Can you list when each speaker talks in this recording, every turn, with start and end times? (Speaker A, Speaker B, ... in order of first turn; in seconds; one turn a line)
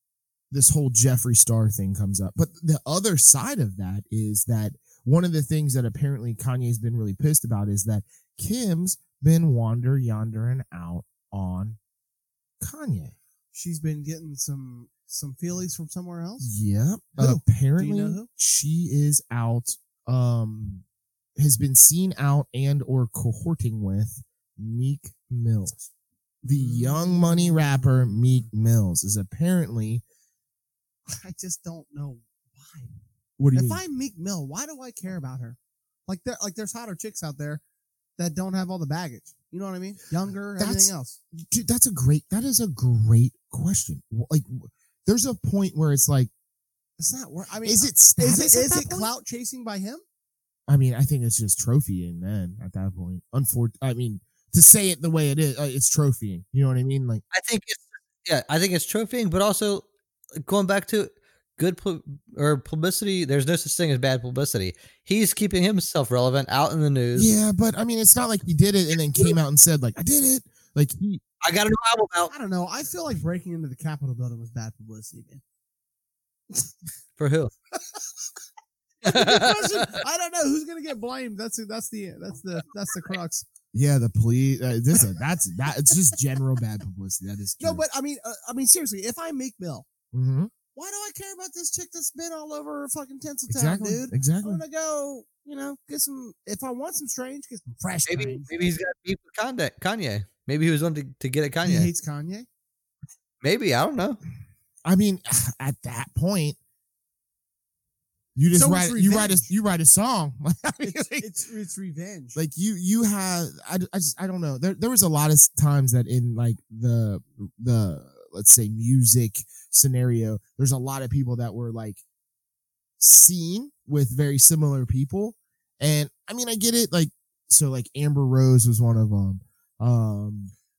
Speaker A: 0.5-11.8
Speaker A: 12.6-13.1
Speaker B: 13.5-16.5
Speaker A: 16.4-20.8
Speaker B: 17.2-18.3
Speaker A: 21.4-25.9
Speaker B: 26.4-28.5
Speaker A: 26.4-30.0
Speaker B: 31.1-32.9
Speaker A: 33.4-33.8
Speaker B: 33.5-37.6
Speaker B: 38.2-41.2
Speaker A: 40.6-46.3
Speaker B: 47.0-50.0
Speaker A: 47.6-49.1
Speaker A: 50.7-57.2
Speaker C: 57.3-59.9
Speaker C: 60.4-67.3
Speaker A: 67.1-71.2
Speaker C: 71.4-72.3
Speaker B: 72.3-75.4
Speaker C: 77.2-77.5
Speaker B: 79.0-83.5
Speaker C: 79.0-80.0
Speaker A: 83.7-87.8
Speaker B: 87.6-89.9
Speaker A: 90.1-90.5
Speaker B: 90.7-98.5
Speaker A: 93.5-94.6
Speaker C: 98.1-101.9
Speaker B: 101.6-102.5
Speaker C: 103.4-104.2
Speaker A: 104.8-106.6
Speaker A: 108.3-111.3
Speaker B: 108.5-109.5
Speaker B: 110.8-112.4
Speaker A: 112.3-122.0
Speaker A: 123.0-130.5